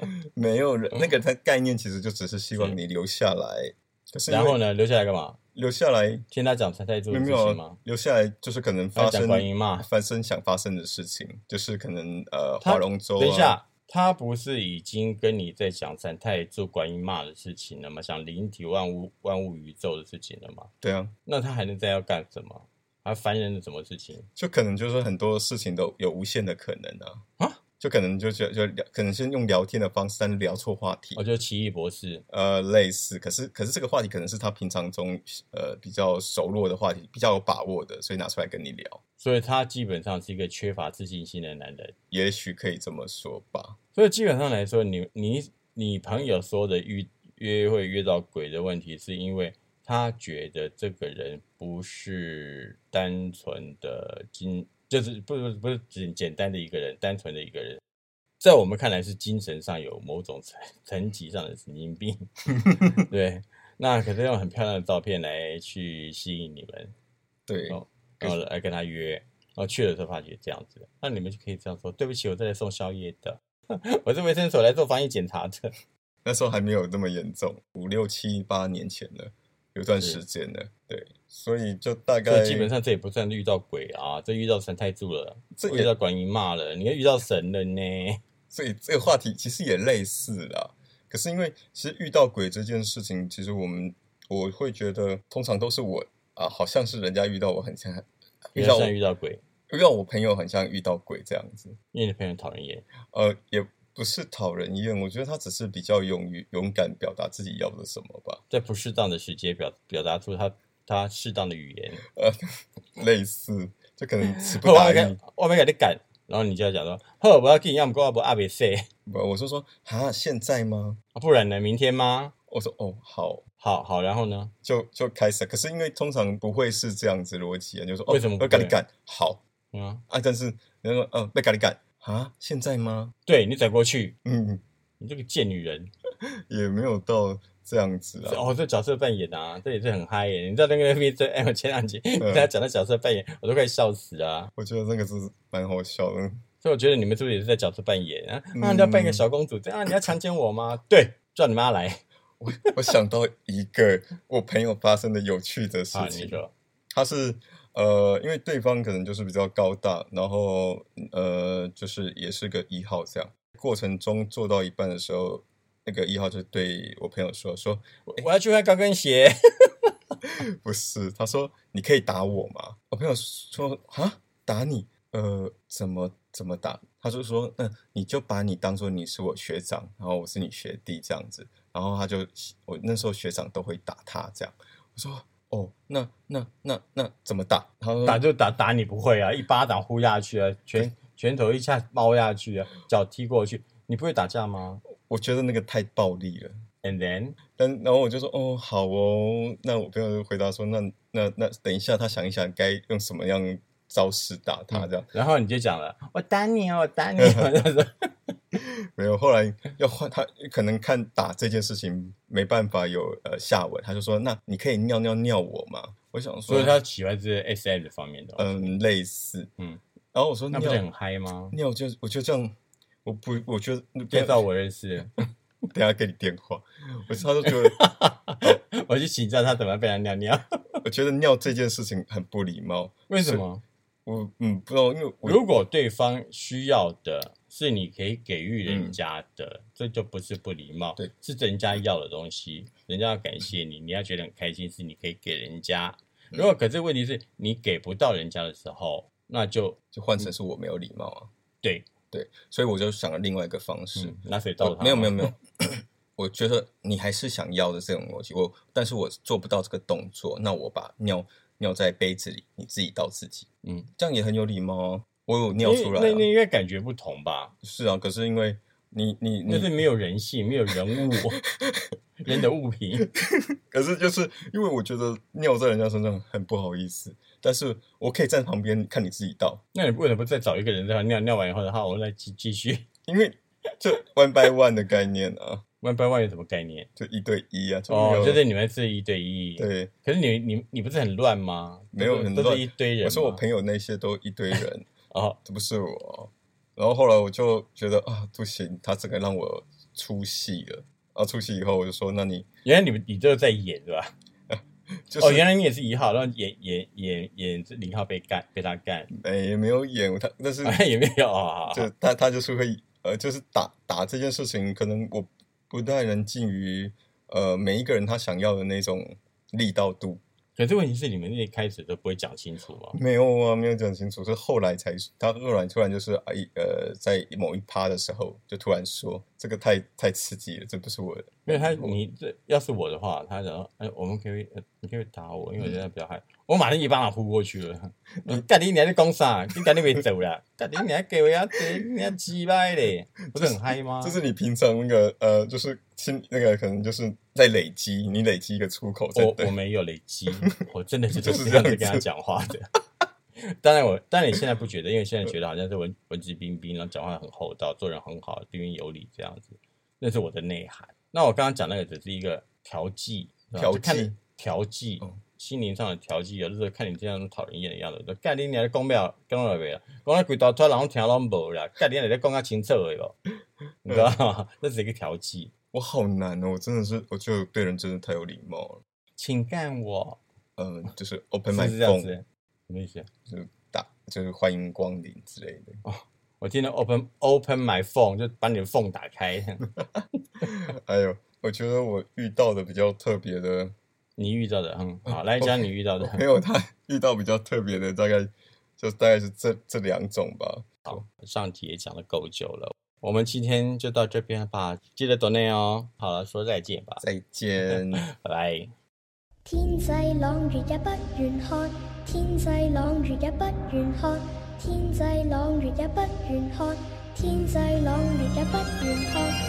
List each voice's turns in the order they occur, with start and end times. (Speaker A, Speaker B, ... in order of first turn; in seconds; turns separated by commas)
Speaker A: 0.3-4.6, Speaker B: 4.3-5.4, Speaker A: 5.5-6.2, Speaker B: 6.3-7.8, Speaker A: 7.1-13.6, Speaker B: 8.9-9.9, Speaker B: 12.6-20.7, Speaker A: 20.8-21.1, Speaker B: 21.2-24.2, Speaker A: 24.4-27.2, Speaker A: 27.8-31.2, Speaker B: 31.1-32.2, Speaker A: 32.3-39.0, Speaker B: 39.2-41.9, Speaker A: 42.1-43.8, Speaker B: 43.9-57.8, Speaker B: 58.4-66.9, Speaker A: 67.5-68.3, Speaker B: 67.7-75.7, Speaker A: 76.2-82.7, Speaker B: 80.0-80.2, Speaker B: 82.2-88.2, Speaker A: 85.5-85.9, Speaker A: 88.5-98.9, Speaker B: 98.5-99.4, Speaker A: 99.7-101.8, Speaker B: 101.9-102.8, Speaker A: 103.1-108.4, Speaker B: 108.5-112.0, Speaker A: 112.1-115.2, Speaker B: 114.6-118.8, Speaker A: 119.0-121.0, Speaker B: 121.1-122.3, Speaker A: 122.5-123.4, Speaker B: 123.6-124.5, Speaker A: 124.6-129.4, Speaker B: 128.1-128.8, Speaker B: 129.7-130.0, Speaker A: 130.1-133.1, Speaker B: 133.3-134.2, Speaker A: 134.2-134.6, Speaker B: 135.0-135.9, Speaker A: 136.2-138.5, Speaker B: 138.2-144.5, Speaker A: 142.2-142.5, Speaker A: 144.6-146.4, Speaker B: 146.6-152.6, Speaker A: 148.5-149.2, Speaker A: 152.4-156.4, Speaker B: 155.9-156.5, Speaker A: 156.9-168.2, Speaker B: 168.1-169.7, Speaker A: 170.2-188.2, Speaker B: 188.0-194.8, Speaker A: 194.9-196.6, Speaker B: 196.8-197.4, Speaker A: 197.6-205.1, Speaker B: 204.7-208.3, Speaker A: 207.2-207.6, Speaker A: 208.5-216.8, Speaker B: 216.5-218.8, Speaker A: 218.4-219.5, Speaker A: 220.1-220.8, Speaker B: 220.5-221.6, Speaker A: 221.5-222.5, Speaker A: 223.0-224.4, Speaker B: 224.1-225.2, Speaker A: 225.7-227.8, Speaker B: 227.4-230.6, Speaker A: 230.8-233.4, Speaker B: 233.1-233.6, Speaker A: 234.1-235.4, Speaker B: 235.2-250.2, Speaker A: 238.7-239.0, Speaker A: 249.9-251.3, Speaker B: 251.6-251.9, Speaker A: 252.1-266.3, Speaker B: 253.9-255.3, Speaker B: 263.6-263.9, Speaker B: 265.6-267.5, Speaker A: 267.6-269.8, Speaker B: 269.5-271.4, Speaker A: 271.5-271.9, Speaker B: 272.2-273.1, Speaker A: 273.0-279.6, Speaker B: 279.7-282.9, Speaker A: 283.1-285.6, Speaker B: 285.8-286.9, Speaker A: 287.0-288.4, Speaker B: 287.9-293.4, Speaker A: 289.6-289.9, Speaker A: 291.9-294.9, Speaker B: 295.1-295.4, Speaker A: 295.4-302.5, Speaker B: 302.6-304.1, Speaker A: 304.5-305.4, Speaker B: 305.2-309.1, Speaker A: 309.1-310.8, Speaker B: 310.6-311.9, Speaker A: 311.7-320.2, Speaker B: 320.6-323.0, Speaker A: 322.9-332.0, Speaker B: 331.5-344.2, Speaker A: 343.3-349.5, Speaker B: 349.1-352.7, Speaker A: 351.1-352.1, Speaker B: 353.5-373.1, Speaker A: 363.5-364.1, Speaker A: 373.8-374.1, Speaker B: 373.9-375.5, Speaker A: 375.7-378.8, Speaker B: 379.2-380.2, Speaker A: 380.6-382.1, Speaker B: 381.5-383.1, Speaker A: 383.3-385.8, Speaker B: 385.8-389.6, Speaker A: 389.8-393.7, Speaker B: 394.2-396.2, Speaker A: 395.1-401.0, Speaker B: 400.9-407.0, Speaker A: 407.0-408.0, Speaker B: 407.7-408.7, Speaker C: 409.4-419.3